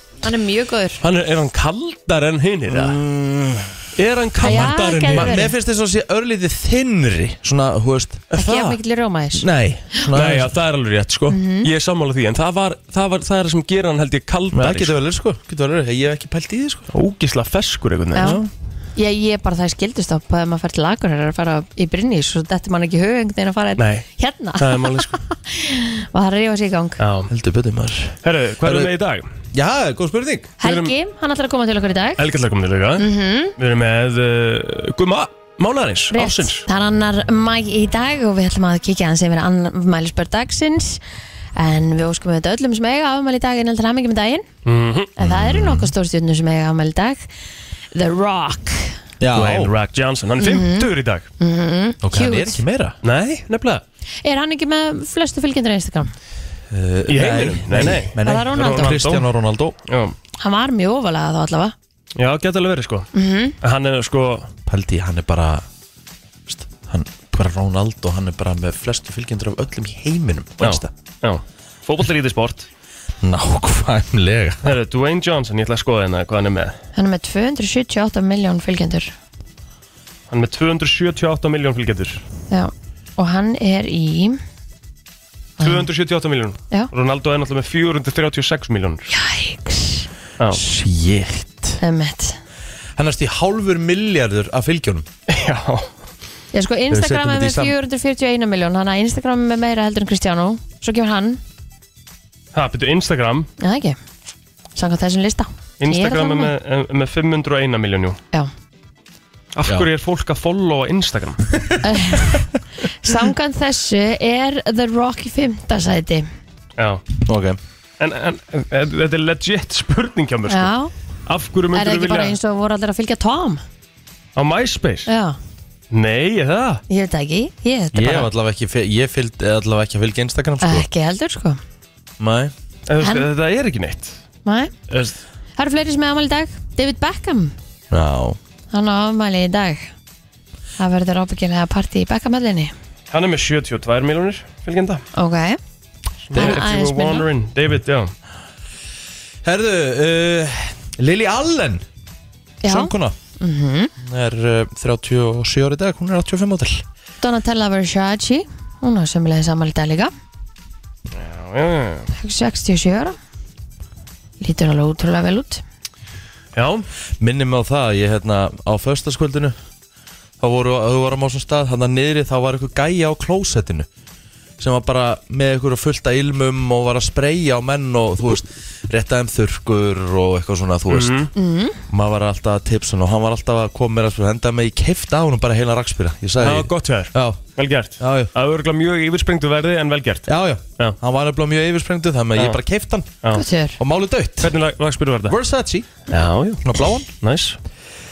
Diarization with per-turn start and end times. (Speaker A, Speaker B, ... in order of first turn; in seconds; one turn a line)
Speaker A: 0.2-1.0
Speaker B: 1.0-3.0
Speaker C: 2.7-3.8
Speaker B: 4.0-5.4
Speaker A: 4.4-5.5
Speaker C: 5.1-8.7
Speaker A: 8.3-10.0
Speaker C: 9.4-10.6
Speaker B: 10.1-14.9
Speaker A: 11.3-11.7
Speaker C: 14.5-16.9
Speaker B: 16.9-18.4
Speaker C: 18.2-18.5
Speaker A: 19.0-27.0
Speaker B: 23.8-24.1
Speaker B: 24.6-25.2
Speaker B: 27.0-27.3
Speaker C: 27.3-28.9
Speaker B: 28.2-29.2
Speaker C: 29.5-30.5
Speaker B: 30.6-30.9
Speaker A: 30.6-32.2
Speaker B: 32.2-33.1
Speaker A: 33.0-33.5
Speaker B: 33.6-36.6
Speaker A: 36.1-41.0
Speaker A: 41.6-44.5
Speaker B: 44.6-45.1
Speaker A: 45.2-47.2
Speaker C: 45.2-45.9
Speaker A: 47.9-48.9
Speaker C: 49.2-49.7
Speaker B: 49.3-51.3
Speaker A: 50.4-52.6
Speaker C: 52.0-53.0
Speaker B: 53.0-53.8
Speaker A: 54.2-56.1
Speaker C: 56.7-59.8
Speaker B: 57.1-59.3
Speaker A: 58.2-58.9
Speaker B: 59.9-60.1
Speaker A: 60.4-61.7
Speaker B: 62.2-63.1
Speaker A: 63.1-63.5
Speaker B: 63.6-64.5
Speaker C: 64.7-65.6
Speaker C: 66.5-70.9
Speaker B: 70.6-72.7
Speaker C: 73.2-74.8
Speaker B: 74.6-76.8
Speaker A: 77.0-79.1
Speaker B: 80.3-82.2
Speaker A: 82.5-84.4
Speaker A: 85.6-85.9
Speaker B: 85.6-89.1
Speaker A: 89.1-90.1
Speaker C: 90.5-91.8
Speaker A: 91.8-92.4
Speaker C: 93.0-95.1
Speaker B: 95.3-95.9
Speaker A: 96.5-101.4
Speaker C: 96.9-97.8
Speaker B: 102.5-103.5
Speaker A: 103.6-104.0
Speaker A: 104.8-106.5
Speaker B: 105.8-108.2
Speaker B: 109.5-111.5
Speaker A: 111.8-112.4
Speaker A: 113.0-116.3
Speaker B: 116.8-117.0
Speaker C: 117.2-117.6
Speaker B: 118.0-120.7
Speaker A: 120.5-120.9
Speaker B: 121.3-122.4
Speaker A: 121.7-123.6
Speaker B: 124.4-125.1
Speaker A: 125.1-125.4
Speaker B: 125.9-126.8
Speaker A: 126.9-128.3
Speaker C: 127.9-130.9
Speaker A: 130.6-131.6
Speaker C: 132.2-132.5
Speaker B: 132.9-134.2
Speaker A: 133.0-133.3
Speaker A: 134.5-134.7
Speaker B: 134.9-135.2
Speaker A: 135.6-137.5
Speaker C: 137.9-138.4
Speaker A: 138.7-139.9
Speaker A: 140.8-142.7
Speaker B: 143.1-145.0
Speaker A: 145.2-145.6
Speaker B: 146.3-148.1
Speaker C: 146.3-146.6
Speaker A: 146.3-147.2
Speaker C: 149.4-151.8
Speaker A: 152.6-153.9
Speaker C: 152.7-153.2
Speaker C: 154.0-156.8
Speaker A: 157.2-160.1
Speaker B: 161.1-162.1
Speaker A: 162.1-163.2
Speaker A: 164.4-165.6
Speaker B: 166.6-166.8
Speaker C: 167.2-169.6
Speaker C: 170.4-173.9
Speaker C: 174.6-181.2
Speaker B: 180.9-181.3
Speaker A: 181.3-181.8
Speaker C: 181.9-187.4
Speaker B: 186.4-190.3
Speaker C: 188.0-188.3
Speaker C: 190.3-193.2
Speaker A: 193.3-193.8
Speaker C: 193.8-194.5
Speaker B: 194.4-195.4
Speaker C: 195.3-196.0
Speaker B: 196.1-197.6
Speaker C: 196.6-197.1